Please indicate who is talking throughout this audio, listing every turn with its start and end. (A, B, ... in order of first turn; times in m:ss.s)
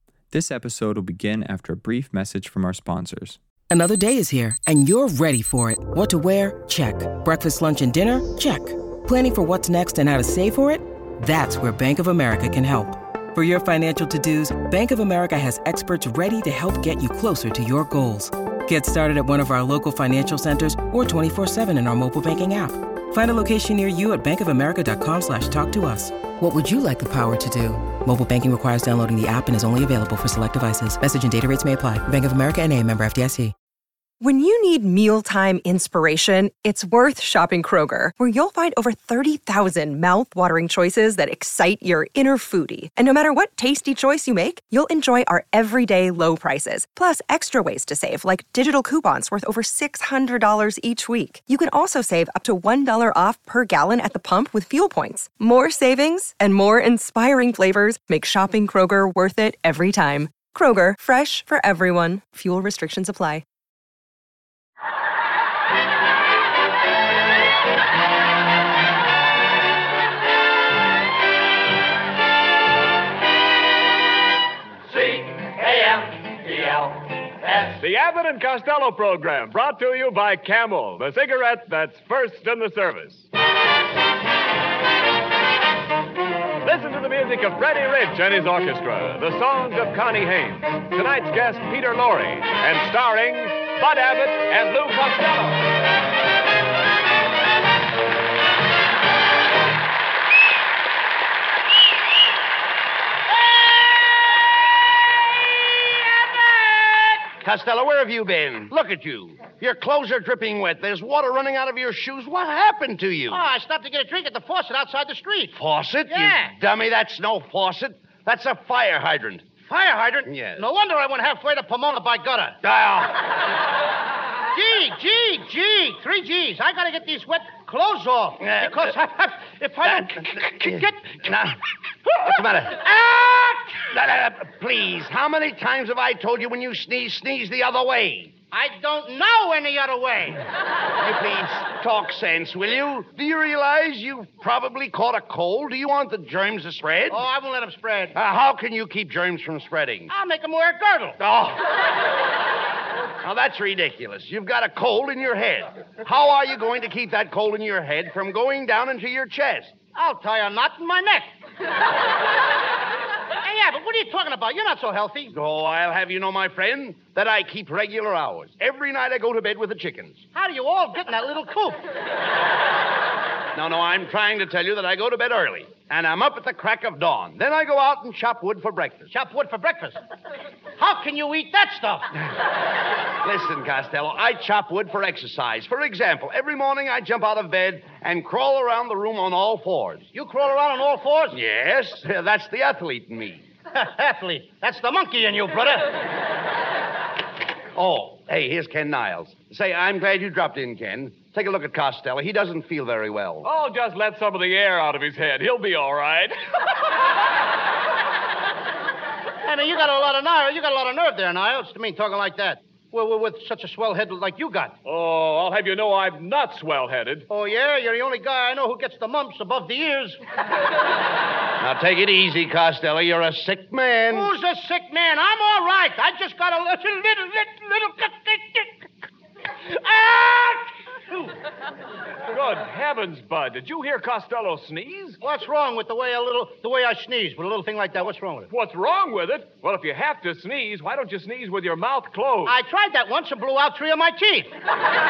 0:00.3-0:03.4 A
0:03.7-0:33.5 B
0:34.2-1:03.4 C
1:14.9-1:16.9 D
1:17.4-1:17.8 D
1:17.8-1:23.3 E
1:26.6-1:35.6 E
1:47.3-1:53.4 D
1:53.3-1:55.5 F
1:55.5-1:59.6 D
1:56.1-1:56.5 F
1:59.6-2:02.6 F
2:00.3-2:00.6 D
2:02.6-2:03.2 D
2:04.5-2:11.2 F
2:08.4-2:08.9 D
2:09.8-2:18.3 D
2:18.5-2:20.4 F
2:21.0-2:27.2 D
2:27.1-2:28.1 F
2:28.1-2:30.1 D
2:30.1-2:31.2 F
2:31.2-2:31.7 D
2:33.2-2:39.8 D
2:39.9-2:41.3 F
2:43.4-2:45.3 F
2:45.3-2:50.3 D
2:50.3-2:51.8 F
2:53.5-2:59.1 D
2:59.1-3:00.0 F
3:00.8-3:02.1 F
3:03.2-3:10.0 D
3:10.1-3:11.4 F
3:11.3-3:13.4 D
3:13.7-3:15.9 F
3:17.7-3:23.5 D
3:23.4-3:26.4 E
3:29.4-3:34.7 F
3:34.8-3:37.3 E
3:37.3-3:40.2 F
3:41.6-3:44.3 D
3:44.1-3:48.9 F
3:49.7-3:51.3 F
3:52.3-3:55.2 E
3:55.2-3:58.5 F
3:58.5-4:02.6 E
4:02.4-4:04.5 F